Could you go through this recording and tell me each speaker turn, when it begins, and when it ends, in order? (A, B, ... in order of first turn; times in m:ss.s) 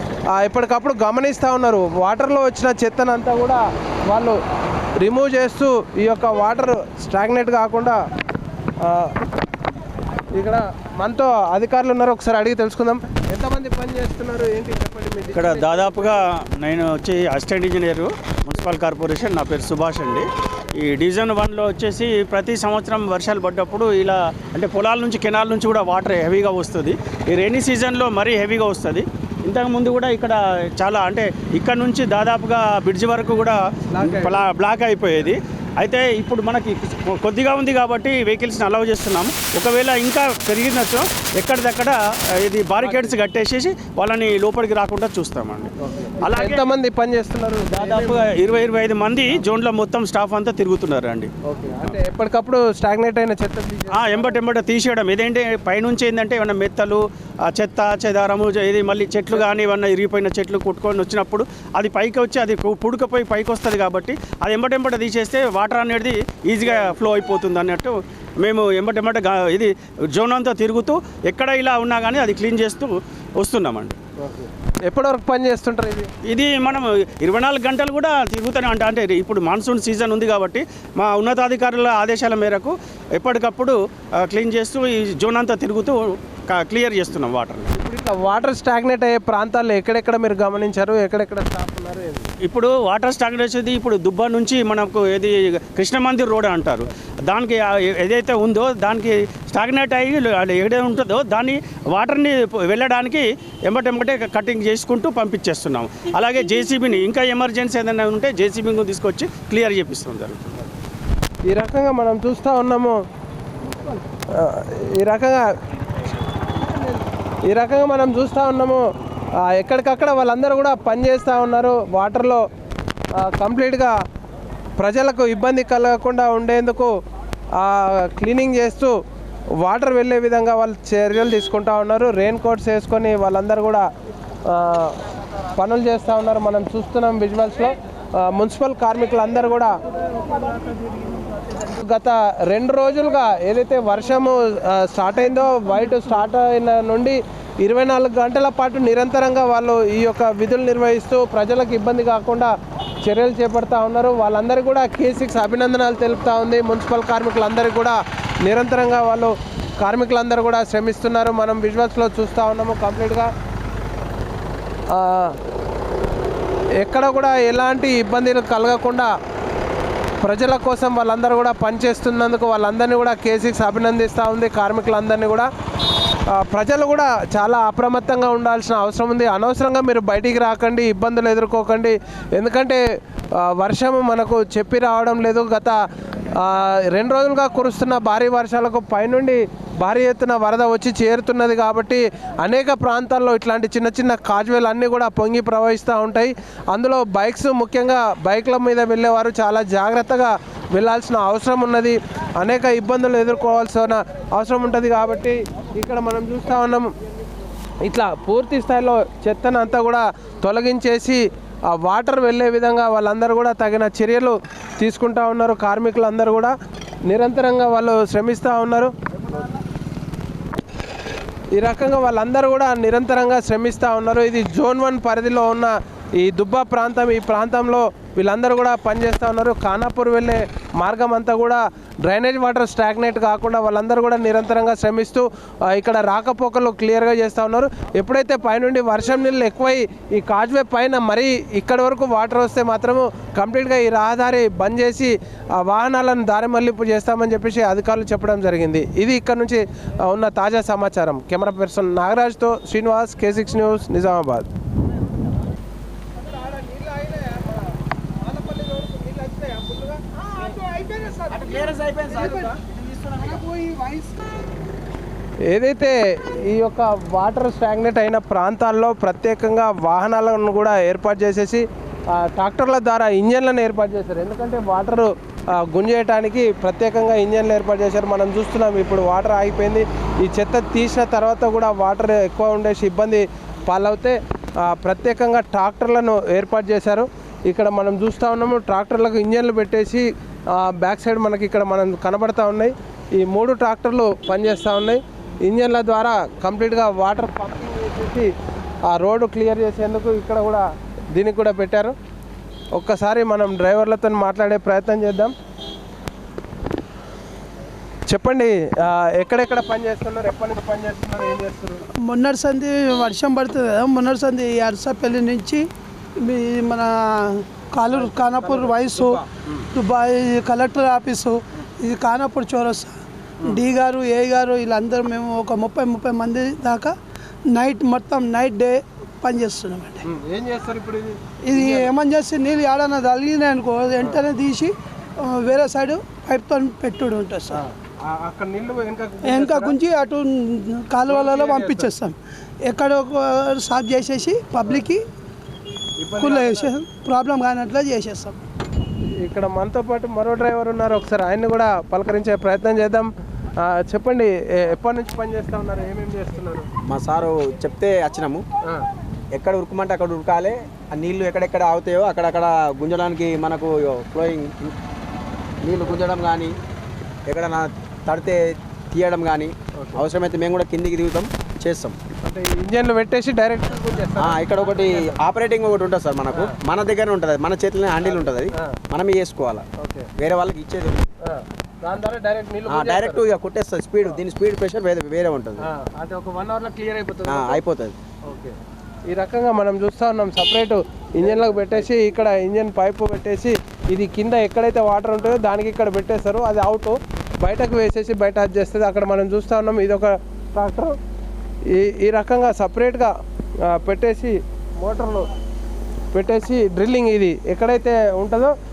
0:00.3-0:04.4 A
0:05.0-0:08.0 A
0:08.8-0:09.1 A
0:10.3-0:16.2 A
0:15.3-0:46.6 B
0:33.9-0:34.4 A
0:42.8-0:43.1 A
0:45.8-0:48.3 A
0:47.7-0:51.3 B
0:51.4-0:54.4 A
0:53.9-1:14.0 B
1:14.2-1:16.1 A
1:16.2-1:27.7 B
1:27.7-1:32.3 A
1:32.4-1:50.7 B
1:51.5-1:53.0 A
1:54.3-1:55.5 A
1:57.5-1:58.8 A
1:59.4-2:02.4 A
2:03.2-2:04.0 A
2:04.8-2:06.9 A
2:07.6-2:09.0 A
2:09.6-2:13.9 A
2:14.4-2:15.0 A
2:15.6-2:19.8 A
2:21.6-2:32.5 A
2:33.0-2:43.3 A
2:44.9-2:45.4 A
2:46.8-2:49.1 A
2:50.2-2:55.5 A
2:56.3-3:02.8 A
3:03.4-3:05.8 A
3:06.4-3:26.9 A
3:27.8-3:36.6 A
3:37.1-3:38.9 A
3:41.6-4:14.5 A
4:16.4-4:17.7 A
4:18.3-4:20.2 A
4:20.4-4:22.5 C
4:23.1-4:24.1 C
4:25.5-4:58.3 A
4:58.9-5:02.0 A
5:02.8-5:05.3 A
5:08.1-5:11.9 A
5:12.0-5:19.2 C
5:17.9-5:19.7 A
5:19.7-5:27.0 C
5:27.5-5:30.0 C
5:30.0-5:31.9 A
5:31.4-5:37.6 C
5:37.5-5:39.8 A
5:39.2-5:45.0 C
5:41.1-5:41.9 A
5:46.0-5:46.7 A
5:46.2-5:48.4 C
5:49.2-5:56.7 A
5:56.8-5:58.4 D
5:59.3-6:04.7 D
6:05.6-6:06.5 D
6:07.3-6:12.0 D
6:12.2-6:15.2 A
6:14.2-6:19.6 D
6:16.3-6:16.6 A
6:18.0-6:18.8 A
6:19.8-6:20.1 A
6:20.2-6:21.1 D
6:21.2-6:23.2 A
6:22.7-6:25.6 D
6:25.6-6:27.6 A
6:27.3-6:28.0 D
6:28.2-6:28.6 A
6:29.1-6:41.0 A
6:41.7-6:45.3 A
6:46.1-6:48.6 A